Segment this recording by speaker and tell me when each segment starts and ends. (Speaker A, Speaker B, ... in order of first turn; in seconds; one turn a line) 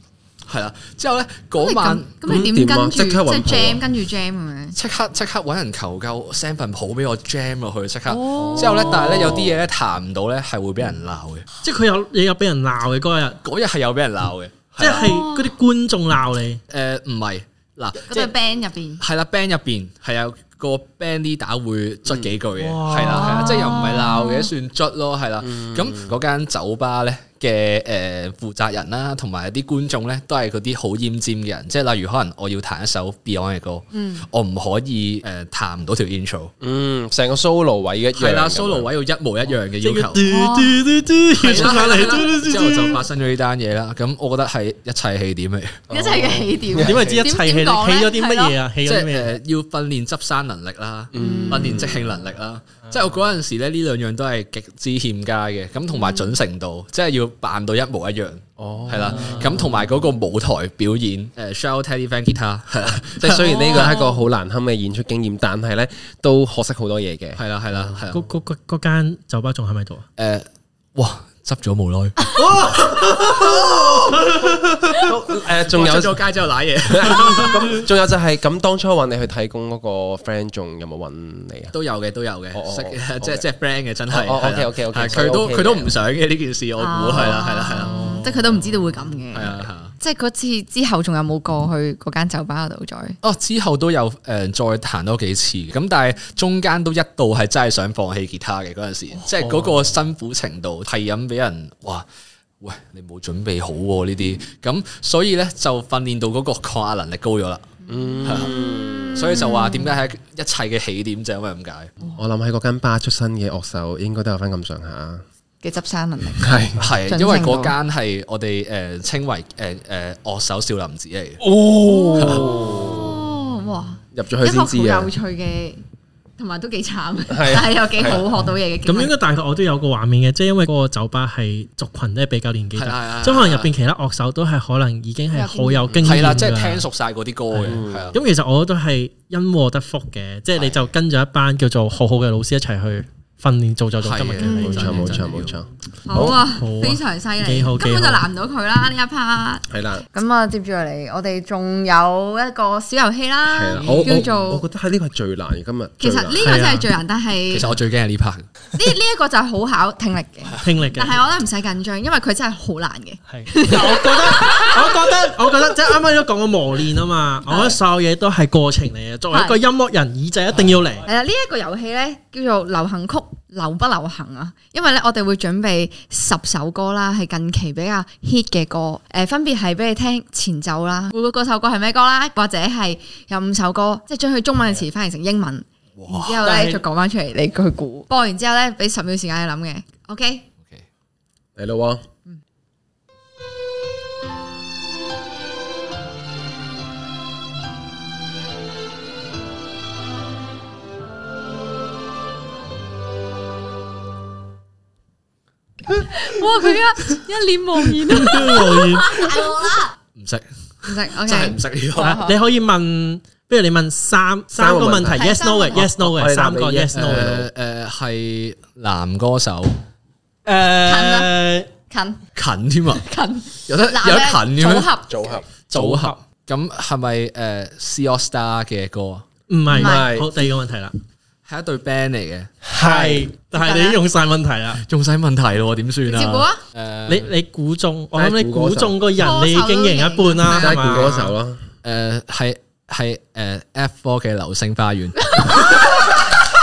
Speaker A: 0.5-2.5
Speaker B: 1.6-4.8
Speaker C: 2.2-3.8
Speaker A: 4.8-11.5
Speaker B: 8.1-9.1
Speaker C: 8.7-9.5
Speaker D: 11.6-13.4
Speaker A: 13.4-15.2
Speaker D: 14.8-16.6
Speaker B: 14.8-15.5
Speaker A: 16.7-18.3
Speaker B: 18.1-19.0
Speaker A: 19.0-36.5
Speaker D: 22.6-23.7
Speaker B: 23.0-24.5
Speaker C: 25.5-26.1
Speaker B: 33.9-34.2
Speaker C: 36.6-38.9
Speaker A: 38.2-40.2
Speaker D: 39.8-43.0
Speaker B: 40.2-40.9
Speaker A: 41.4-45.8
Speaker C: 45.9-47.1
Speaker B: 45.9-48.6
Speaker D: 46.8-49.4
Speaker A: 48.9-63.9
Speaker C: 51.1-52.0
Speaker B: 51.2-51.8
Speaker C: 58.6-59.5
Speaker D: 59.1-59.5
Speaker C: 63.0-67.4
Speaker B: 63.5-64.2
Speaker A: 67.4-68.3
Speaker D: 68.1-70.0
Speaker A: 70.2-72.3
Speaker D: 72.4-75.0
Speaker A: 73.4-73.9
Speaker C: 75.0-76.2
Speaker A: 75.5-77.8
Speaker C: 76.8-81.7
Speaker A: 81.7-88.0
Speaker C: 82.5-83.5
Speaker C: 84.1-85.9
Speaker B: 86.8-93.2
Speaker D: 87.9-88.3
Speaker A: 89.3-89.9
Speaker A: 93.2-102.1
Speaker A: 102.6-107.6
Speaker B: 107.9-108.2
Speaker C: 107.9-109.3
Speaker A: 108.2-111.9
Speaker C: 112.2-115.2
Speaker B: 115.6-117.8
Speaker C: 116.4-116.9
Speaker A: 116.8-121.5
Speaker C: 121.4-123.2
Speaker B: 121.8-125.8
Speaker A: 122.2-122.5
Speaker C: 124.1-125.1
Speaker B: 126.4-129.1
Speaker C: 127.3-128.2
Speaker D: 128.9-136.8
Speaker A: 132.8-133.7
Speaker B: 135.3-135.9
Speaker C: 135.9-136.2
Speaker A: 136.0-138.2
Speaker D: 137.5-145.3
Speaker C: 137.7-138.2
Speaker A: 144.0-145.5
Speaker B: 144.4-144.8
Speaker C: 144.5-146.3
Speaker B: 146.1-154.6
Speaker D: 146.1-148.3
Speaker C: 149.7-150.0
Speaker C: 153.5-156.6
Speaker A: 153.8-154.3
Speaker B: 156.0-157.7
Speaker D: 156.4-156.9
Speaker A: 157.5-158.5
Speaker B: 158.7-164.9
Speaker D: 160.6-161.2
Speaker D: 163.3-171.1
Speaker B: 167.5-167.8
Speaker B: 169.3-169.6
Speaker B: 171.1-190.4
Speaker A: 186.0-186.4
Speaker D: 186.3-186.8
Speaker C: 191.6-192.0
Speaker B: 206.0-209.9
Speaker D: 208.1-209.5
Speaker A: 210.2-212.2
Speaker B: 210.8-212.4
Speaker D: 212.0-217.4
Speaker C: 214.5-217.5
Speaker B: 215.1-215.8
Speaker A: 216.9-219.8
Speaker D: 220.4-221.7
Speaker B: 220.8-221.3
Speaker B: 221.9-222.2
Speaker A: 222.3-223.1
Speaker B: 222.9-225.4
Speaker A: 223.7-224.9
Speaker C: 225.1-225.5
Speaker D: 225.7-226.2
Speaker A: 225.7-229.2
Speaker D: 229.5-231.0
Speaker B: 229.7-230.1
Speaker C: 229.7-230.3
Speaker A: 231.5-232.5
Speaker D: 232.7-234.8
Speaker C: 232.8-233.2
Speaker B: 233.5-234.0
Speaker A: 234.8-237.3
Speaker B: 236.1-236.6
Speaker D: 237.1-241.3
Speaker C: 238.1-239.0
Speaker B: 239.1-240.8
Speaker A: 240.5-241.3
Speaker C: 240.5-241.6
Speaker A: 241.8-245.9
Speaker B: 245.2-246.0